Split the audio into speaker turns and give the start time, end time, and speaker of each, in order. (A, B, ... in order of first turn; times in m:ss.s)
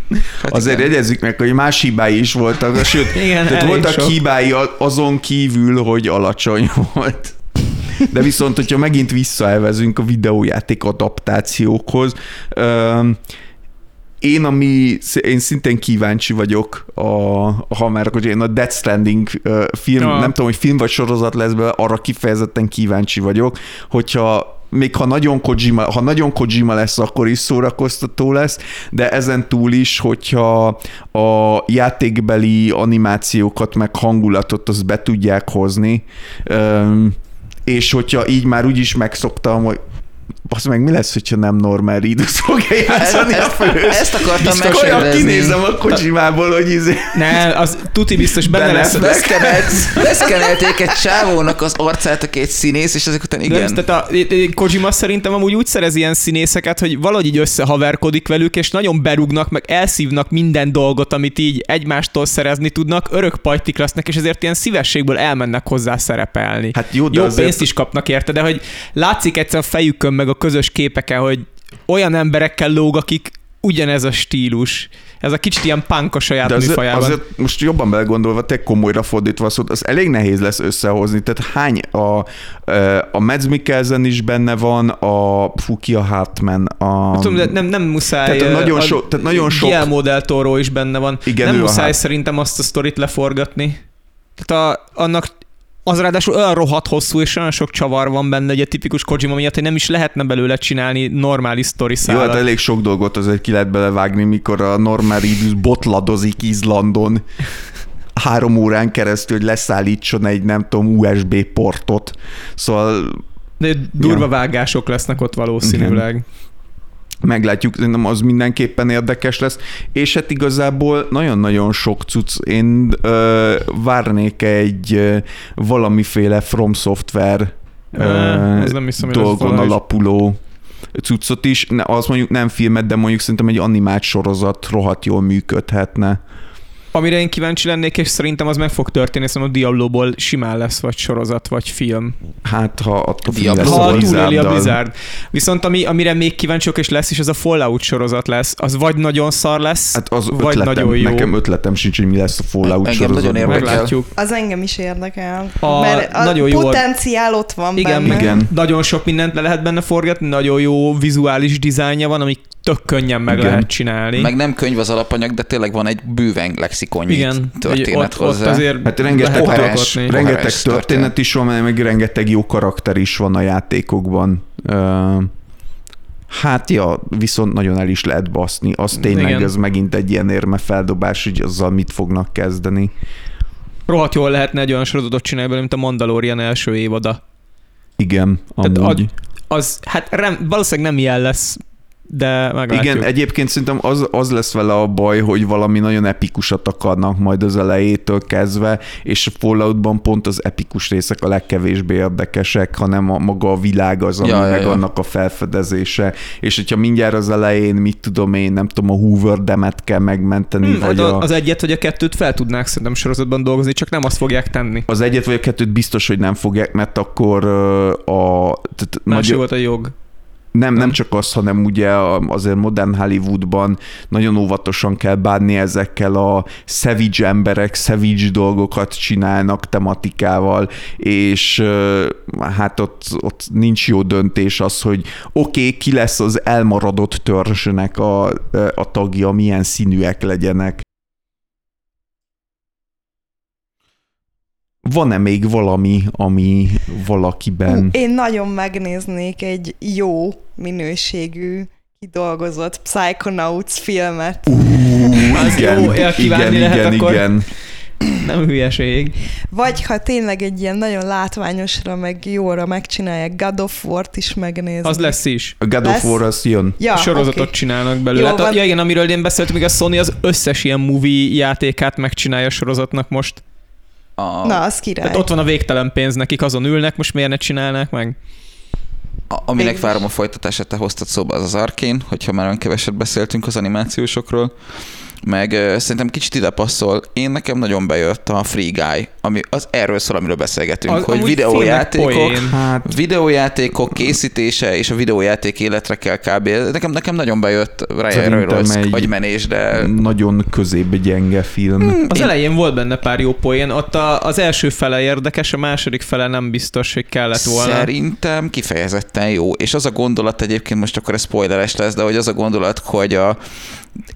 0:00.4-0:00.9 A
0:00.5-0:07.4 B
0:03.1-0:04.2 C
0:07.9-0:13.2 B
0:14.2-0:39.8 B
0:20.0-0:20.3 C
0:40.5-0:47.5 B
0:42.9-0:45.6 A
0:47.1-0:49.2 C
0:48.4-0:50.6 B
0:48.8-0:53.8 A
0:53.5-1:17.2 C
1:06.8-1:07.6 B
1:16.4-1:27.6 B
1:27.1-1:33.8 C
1:28.2-1:29.9 B
1:31.3-1:32.0 B
1:34.4-1:35.3 C
1:35.9-1:42.4 C
1:42.0-1:47.3 B
1:48.2-1:53.2 B
1:53.6-1:56.2 C
1:54.0-1:54.3 B
1:55.6-1:56.0 B
1:57.2-2:10.4 B
2:08.0-2:09.8 C
2:10.9-2:16.2 B
2:16.9-2:22.1 C
2:22.4-2:24.8 B
2:23.3-2:24.2 A
2:23.6-2:31.3 C
2:30.0-2:33.9 B
2:32.6-2:34.0 A
2:33.5-2:34.1 C
2:34.2-2:38.4 D
2:35.6-2:36.9 C
2:37.8-2:44.3 C
2:38.0-2:38.5 B
2:43.3-2:43.7 B
2:44.2-2:51.1 A
2:47.1-2:50.2 C
2:48.8-2:55.3 B
2:56.3-3:02.9 B
2:58.9-2:59.5 C
3:03.9-3:07.2 C
3:08.0-3:09.1 B
3:08.6-3:13.1 C
3:12.7-3:31.3 B
3:24.2-3:24.8 A
3:30.6-3:34.9 C
3:34.9-3:39.4 B
3:39.1-3:39.9 C
3:40.5-4:00.8 B
4:04.8-4:07.9 B
4:07.7-4:15.3 D
4:14.5-4:17.5 B
4:15.3-4:19.2 C
4:19.5-4:25.2 D
4:24.8-4:25.6 C
4:25.6-4:26.8 B
4:25.8-4:26.2 D
4:26.8-4:27.6 D
4:27.0-4:33.4 C
4:28.1-4:28.6 D
4:34.2-4:34.6 A
4:34.4-4:35.3 D
4:35.0-4:38.2 C
4:39.3-4:59.9 A
4:39.6-4:40.0 D
4:50.9-4:52.6 C
4:52.5-4:52.9 B
4:58.1-4:59.1 B
4:59.7-5:02.0 B
5:01.8-5:02.3 A
5:02.1-5:07.9 C
5:07.4-5:13.8 A